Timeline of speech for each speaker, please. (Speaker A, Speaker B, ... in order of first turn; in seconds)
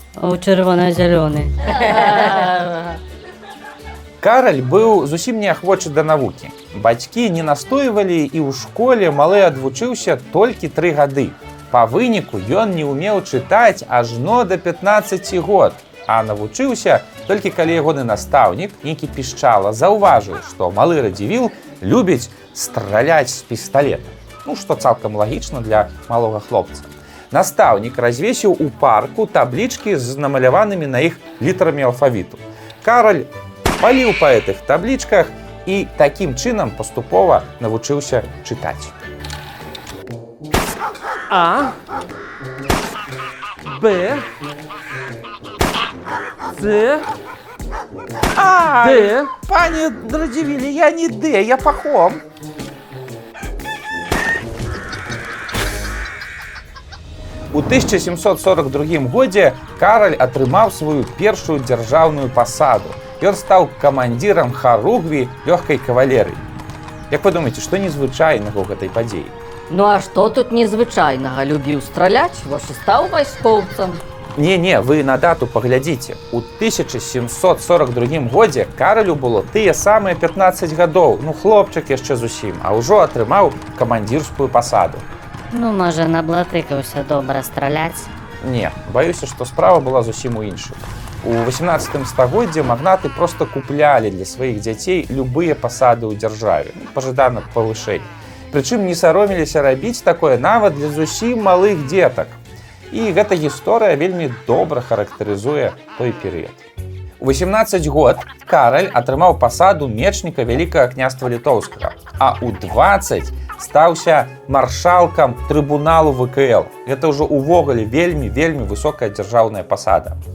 Speaker A: 0.2-1.6, 85.5-88.1
Speaker B: 1.9-2.7, 69.7-74.0
Speaker C: 4.2-38.9, 48.3-52.2, 57.5-66.5, 67.1-69.3, 74.3-85.0, 88.4-102.4, 102.9-106.7, 107.2-120.2
Speaker D: 41.3-41.8, 43.6-44.2, 46.5-47.0, 48.8-49.3